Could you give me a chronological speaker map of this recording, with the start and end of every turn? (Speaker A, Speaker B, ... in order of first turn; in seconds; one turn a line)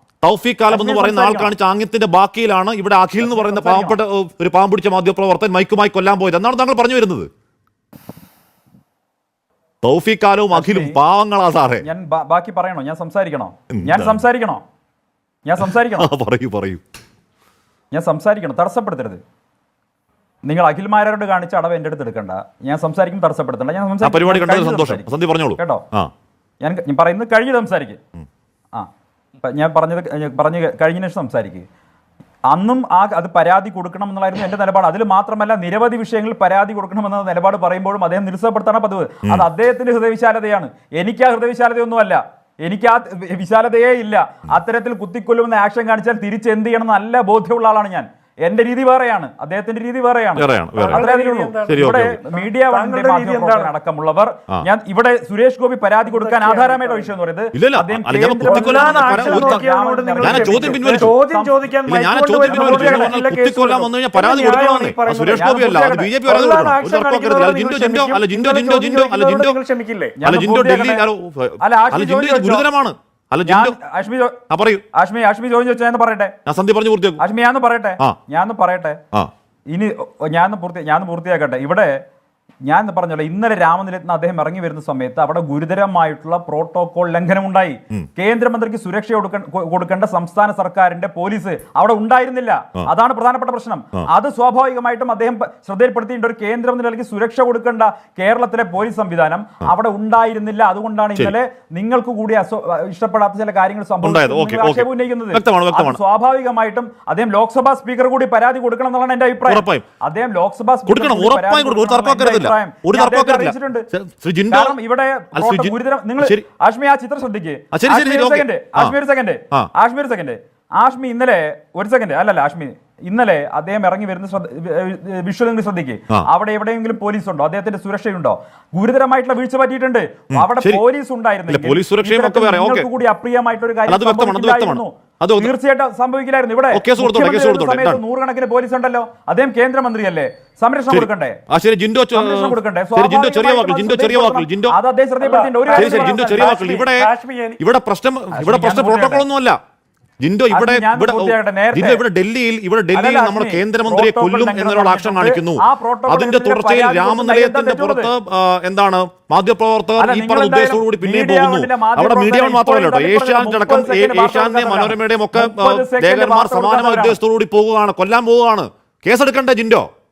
Speaker A: 0.2-7.3
Speaker B: 0.7-1.5
Speaker B: 3.2-4.0
Speaker A: 9.8-11.8
Speaker B: 10.5-10.9
Speaker B: 11.8-14.6
Speaker A: 13.7-14.2
Speaker B: 15.4-16.1
Speaker A: 15.6-16.8
Speaker B: 17.9-19.2
Speaker B: 20.4-25.1
Speaker A: 24.0-26.1
Speaker B: 25.6-25.8
Speaker B: 26.6-28.0
Speaker B: 28.7-31.6
Speaker B: 32.5-61.6
Speaker A: 50.4-51.0
Speaker C: 50.9-53.7
Speaker A: 51.7-52.2
Speaker C: 56.0-57.1
Speaker A: 57.5-59.6
Speaker C: 58.4-65.5
Speaker A: 60.2-61.2
Speaker A: 61.9-69.6
Speaker B: 62.5-63.1
Speaker B: 65.3-66.1
Speaker C: 66.2-70.1
Speaker B: 70.2-71.0
Speaker A: 70.2-73.8
Speaker B: 71.6-72.6
Speaker B: 73.5-74.4
Speaker A: 74.5-74.8
Speaker B: 74.9-76.3
Speaker A: 76.5-77.2
Speaker B: 77.2-79.0
Speaker B: 79.7-82.0
Speaker B: 82.6-113.9
Speaker A: 104.0-106.0
Speaker A: 109.5-109.8
Speaker A: 110.9-114.7
Speaker B: 114.5-141.4
Speaker A: 115.3-116.4
Speaker A: 117.7-118.9
Speaker A: 130.3-130.8
Speaker A: 131.5-132.9
Speaker A: 133.9-135.5
Speaker A: 136.7-138.0
Speaker A: 140.9-144.8
Speaker B: 142.1-146.5
Speaker C: 145.2-147.6
Speaker A: 145.7-149.6
Speaker B: 148.3-149.2
Speaker A: 150.2-169.9
Speaker B: 150.5-152.0
Speaker B: 152.9-158.1
Speaker B: 160.0-167.2